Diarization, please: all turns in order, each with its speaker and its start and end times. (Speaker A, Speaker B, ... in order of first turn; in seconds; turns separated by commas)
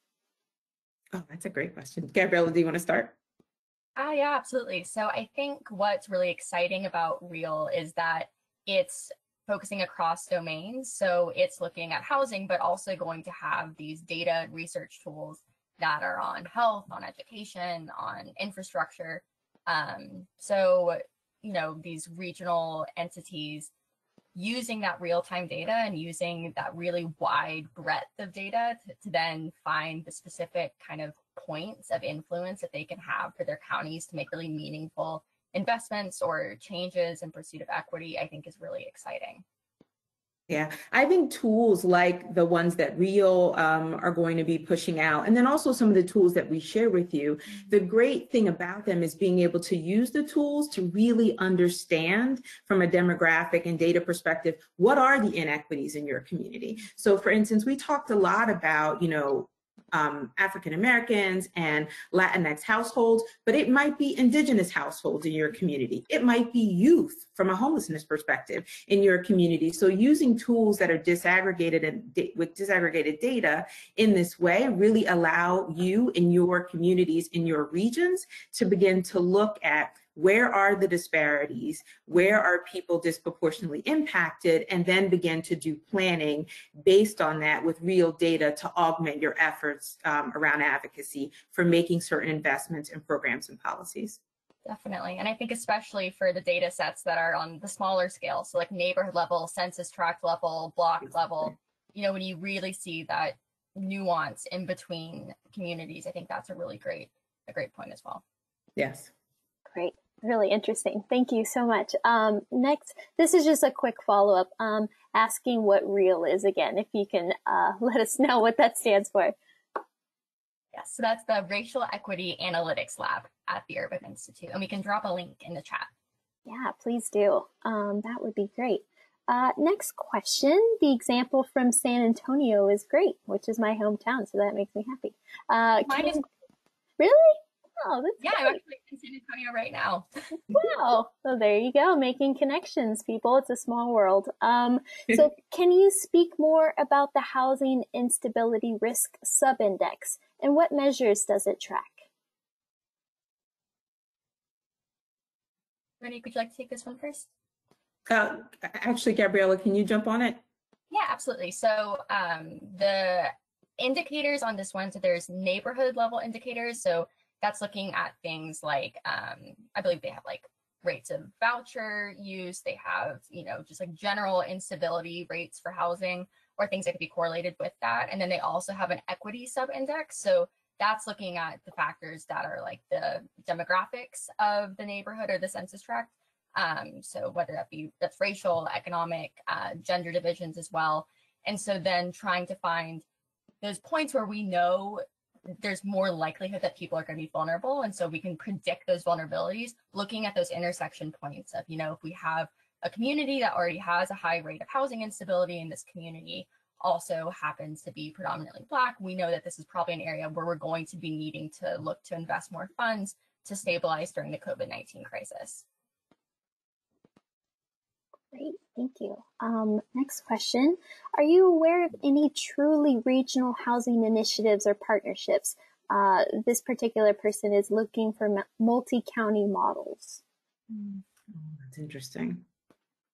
Speaker A: 1.1-3.1, Speaker B: 4.0-23.7, Speaker B: 24.4-39.4, Speaker A: 40.5-94.2, Speaker B: 94.7-108.2, Speaker A: 108.8-109.1, Speaker C: 109.7-119.3, Speaker B: 120.7-125.9, Speaker C: 126.5-136.2, Speaker B: 135.8-136.2, Speaker C: 137.0-138.6, Speaker B: 138.2-140.1, Speaker C: 140.5-152.1, Speaker B: 156.0-157.3, Speaker A: 158.1-160.4, Speaker B: 160.9-193.1, Speaker B: 193.6-215.7, Speaker C: 218.3-230.2, Speaker A: 230.7-232.4